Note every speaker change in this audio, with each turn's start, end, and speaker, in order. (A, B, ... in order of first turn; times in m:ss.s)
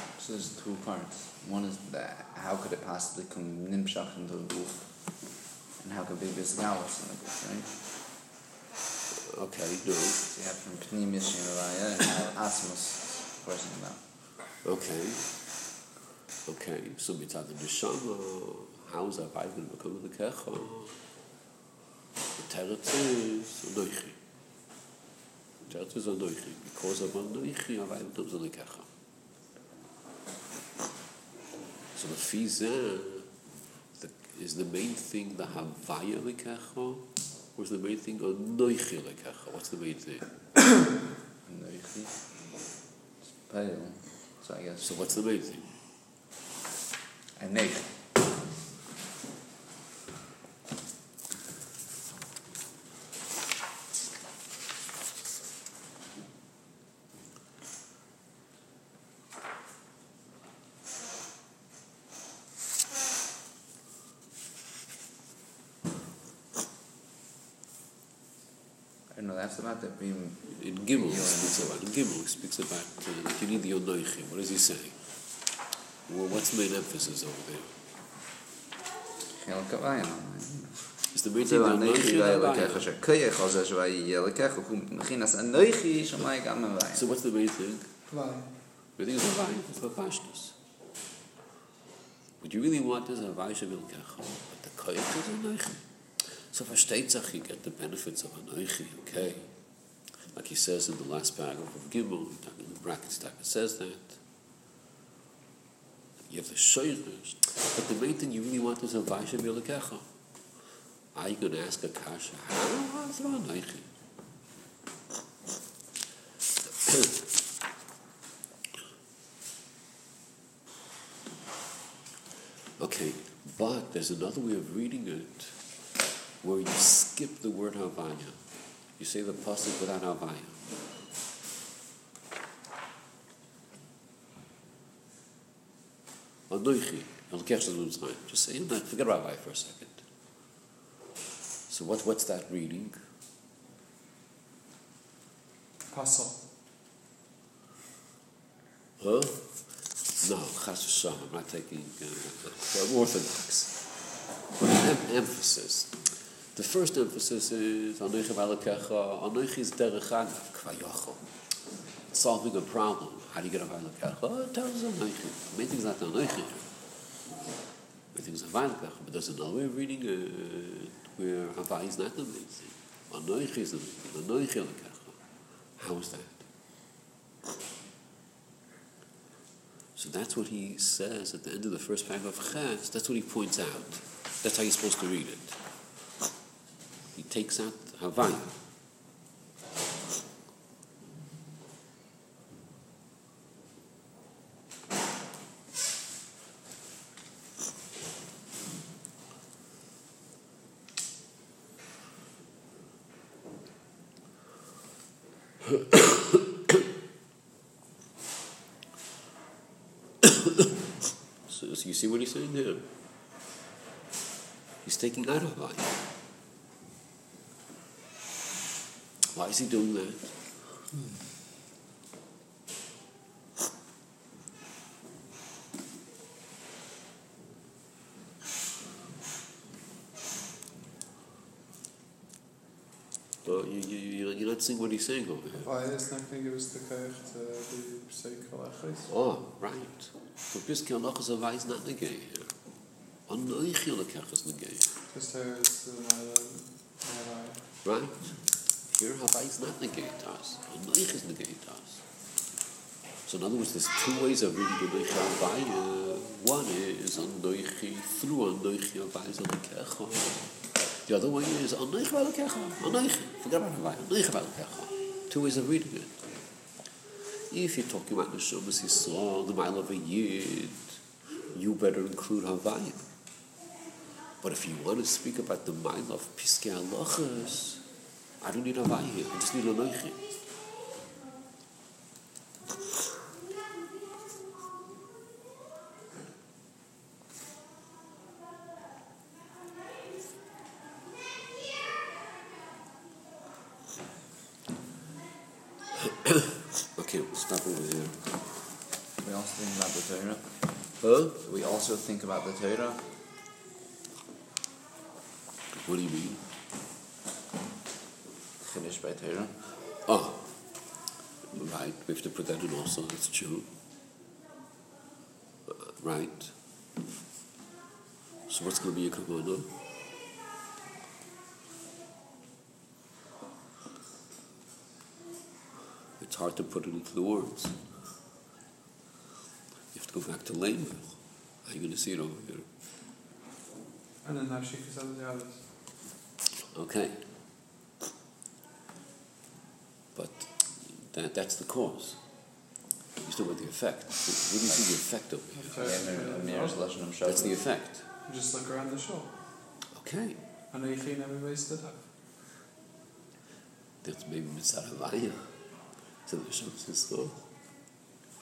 0:00.2-0:07.8 A
0:09.2-0:10.2 B
0:10.3-0:14.1 A
0:14.6-0:15.5 B
0:16.4-0:21.0 B
0:22.4-0:24.2 B
0:25.7-0:28.9 B
0:31.9-0:33.3 B
0:33.9-0:40.3 B
0:41.4-0:42.6 A
0:43.3-0:45.0 A
0:44.8-0:45.8 B
0:47.4-0:48.0 A
1:09.1-1:11.8 A
1:10.5-1:15.1 B
1:16.1-1:17.8 B
1:19.3-1:27.1 A
1:21.1-1:22.9 B
1:26.9-1:27.9 B
1:28.1-1:28.5 C
1:28.9-1:30.6 B
1:32.4-1:44.2 B
1:46.3-1:50.6 B
1:51.1-1:53.9 B
2:02.8-2:10.7 B
2:16.5-2:20.1 B
2:21.7-2:23.0 B
2:25.9-2:26.4 C
2:29.0-2:47.0 B
2:48.1-2:56.5 B
3:00.0-3:05.7 B
3:07.1-3:08.6 B
3:25.8-3:26.0 B
3:31.5-3:33.0 B
3:34.8-3:36.0 B
3:39.3-3:40.6 B
3:53.4-3:55.7 B
3:55.6-3:59.1 C
3:59.1-4:04.9 B
4:05.1-4:07.7 C
4:07.8-4:12.1 B
4:13.2-4:26.5 B
4:27.5-4:33.1 B
4:34.4-4:40.4 B
4:56.1-4:58.6 B
4:59.2-5:03.1 A
5:01.0-5:01.4 B
5:05.7-5:06.5 B
5:08.6-5:09.6 A
5:10.0-5:10.9 B
5:11.5-5:13.7 B
5:15.7-5:16.6 B
5:18.5-5:19.8 B
5:26.2-5:27.9 B
5:29.9-5:32.7 B
5:34.2-5:35.7 C
5:36.7-5:37.6 B
5:40.1-5:42.5 B
5:43.2-5:45.9 B
5:45.5-5:46.8 C
5:45.8-5:47.6 A
5:47.2-5:48.1 B
5:48.2-5:49.4 C
5:49.9-5:50.4 B
5:50.7-5:52.1 C
5:54.0-5:57.5 B